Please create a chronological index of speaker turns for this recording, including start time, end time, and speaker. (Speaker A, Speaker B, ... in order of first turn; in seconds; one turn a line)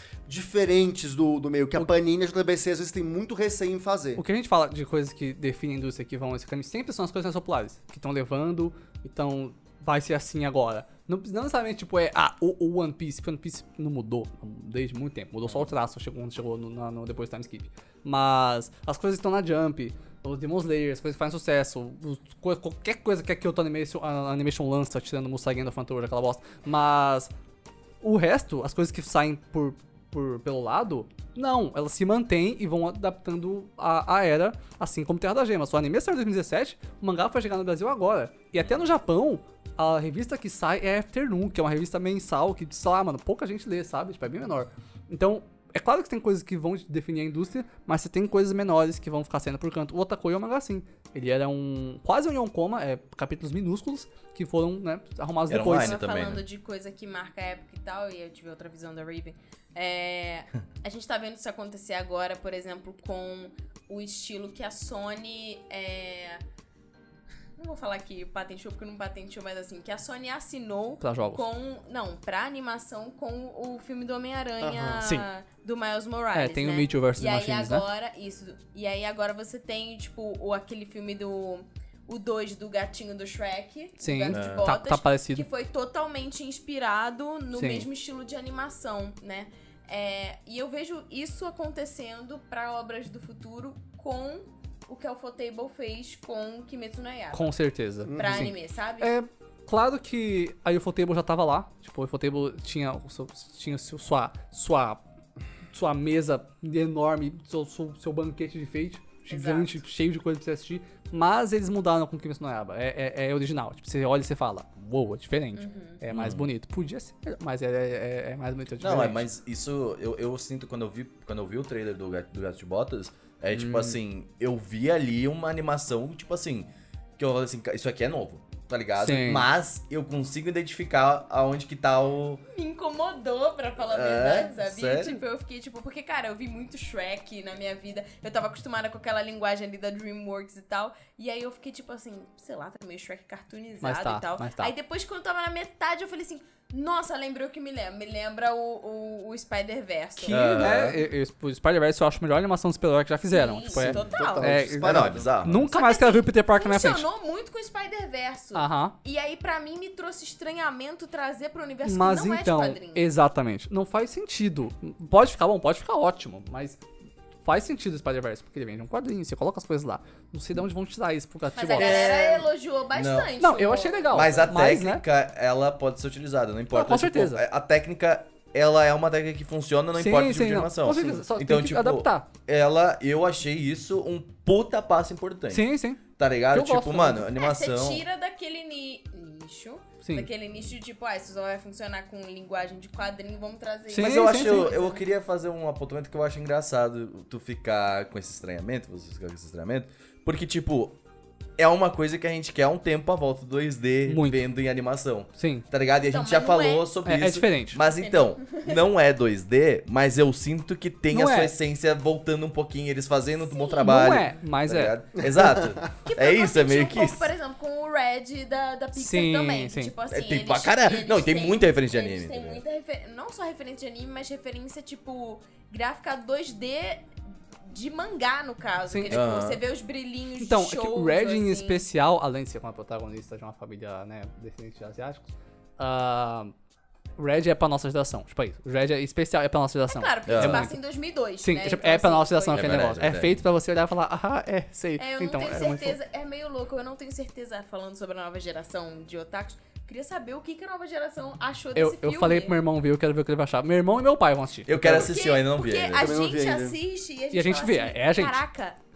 Speaker A: 0.2-4.2
Speaker B: 4.2-27.3
Speaker C: 15.4-15.7
Speaker B: 28.0-56.0
Speaker C: 38.6-38.9
Speaker C: 55.5-56.4
Speaker D: 55.7-66.4
Speaker D: 67.6-97.5
Speaker B: 71.0-71.4
Speaker A: 74.6-75.0
Speaker B: 76.3-77.8
Speaker B: 84.0-85.5
Speaker C: 84.3-84.7
Speaker B: 87.5-87.9
Speaker B: 97.3-105.0
Speaker A: 98.0-98.5
Speaker D: 98.1-99.1
Speaker B: 105.7-119.2
Speaker D: 109.3-109.8
Speaker D: 115.5-116.0
Speaker C: 116.1-116.5
Speaker C: 118.8-132.4
Speaker B: 123.5-124.0
Speaker B: 129.0-129.4
Speaker D: 132.5-150.8
Speaker C: 133.9-135.2
Speaker B: 143.8-144.7
Speaker B: 150.2-157.1
Speaker C: 150.3-151.0
Speaker D: 153.3-154.6
Speaker A: 153.7-155.5
Speaker C: 154.8-155.6
Speaker D: 155.5-163.1
Speaker B: 158.5-158.9
Speaker B: 161.8-166.8
Speaker B: 167.4-172.1
Speaker D: 171.6-174.6
Speaker C: 171.8-173.3
Speaker B: 173.4-175.0
Speaker C: 174.1-188.0
Speaker B: 176.7-177.4
Speaker B: 179.9-182.3
Speaker B: 185.5-187.3
Speaker D: 187.2-195.1
Speaker B: 190.0-190.3
Speaker B: 193.9-194.7
Speaker C: 193.9-201.0
Speaker C: 201.6-217.3
Speaker B: 204.1-204.4
Speaker B: 205.3-205.7
Speaker D: 206.0-206.9
Speaker B: 207.0-207.8
Speaker D: 208.0-208.8
Speaker B: 211.1-211.5
Speaker D: 213.3-214.1
Speaker B: 213.8-214.9
Speaker A: 215.2-215.8
Speaker D: 216.0-227.1
Speaker B: 218.9-219.9
Speaker C: 220.1-222.6
Speaker D: 227.6-231.8
Speaker B: 228.9-229.2
Speaker C: 229.1-229.6
Speaker B: 230.4-236.5
Speaker B: 237.2-240.8
Speaker D: 239.9-242.9
Speaker C: 240.3-240.6
Speaker B: 241.4-246.0
Speaker C: 242.5-243.4
Speaker D: 245.0-252.6
Speaker B: 251.7-254.8
Speaker C: 254.7-256.1
Speaker D: 254.8-258.8
Speaker A: 255.9-256.8
Speaker B: 257.3-258.4